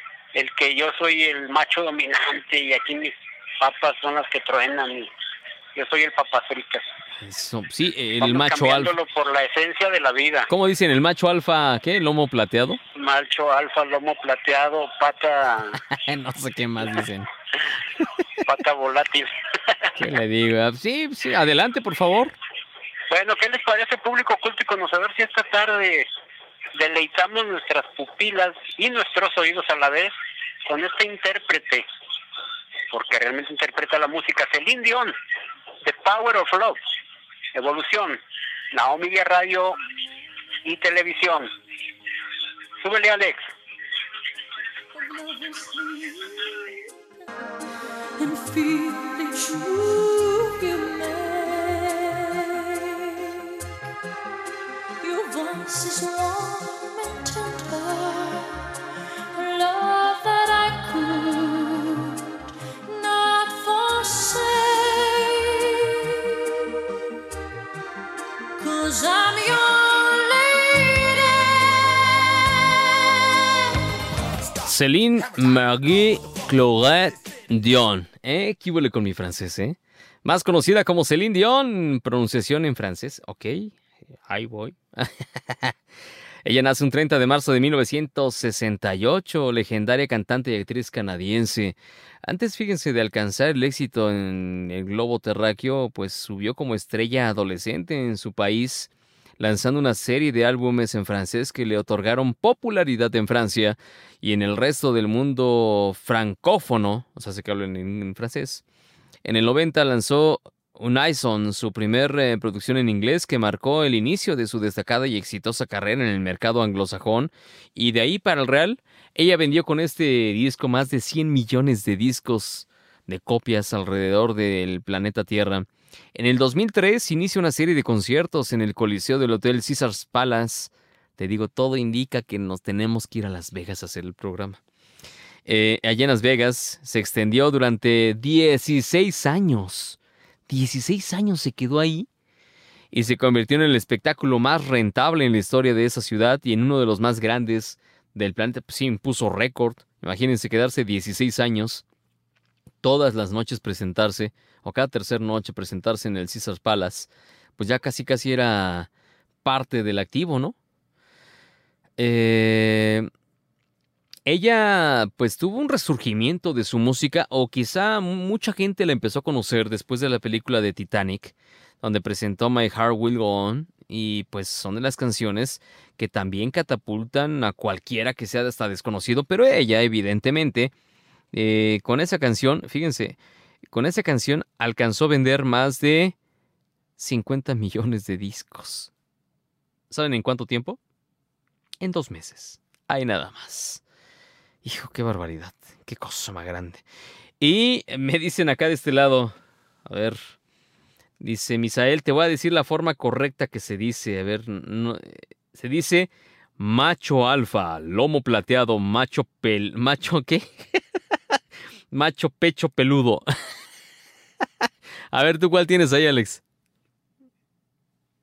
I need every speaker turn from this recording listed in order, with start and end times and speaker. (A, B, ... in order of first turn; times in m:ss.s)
0:00.4-0:05.1 A
0:05.8-0:06.9 A
0:07.2-0:08.9 B
0:08.2-0:10.5 A
0:10.5-0:12.8 B
0:13.0-0:15.8 A
0:15.8-0:17.3 B
0:18.4-0:19.3 A
0:20.0-0:22.4 B
0:23.1-0:26.1 A
0:26.8-0:30.1 A
0:30.7-0:31.9 A
0:32.9-0:35.1 A
0:35.8-0:36.8 A
0:37.6-0:38.2 A
0:38.7-0:39.8 A
0:40.6-0:41.5 A
0:42.8-0:43.5 A
0:44.9-0:46.6 C
0:48.2-0:53.5 C
0:55.0-0:58.6 C
0:59.3-1:02.2 C
1:02.9-1:05.7 C
1:08.6-1:11.9 C
1:14.6-1:25.8 B
1:26.4-1:48.6 B
1:49.2-2:14.6 B
2:15.5-2:20.0 B
2:20.5-2:22.1 B
2:22.9-2:31.8 B
2:32.8-2:38.9 B
2:39.4-2:40.6 B
2:42.0-2:43.1 B
2:44.3-3:00.7 B
3:01.3-3:03.2 B
3:03.7-3:06.1 B
3:07.0-3:08.9 B
3:09.9-3:10.8 B
3:11.8-3:13.8 B
3:14.6-3:16.8 B
3:17.4-3:20.4 B
3:21.2-3:30.8 B
3:31.9-3:33.2 B
3:35.1-3:36.4 B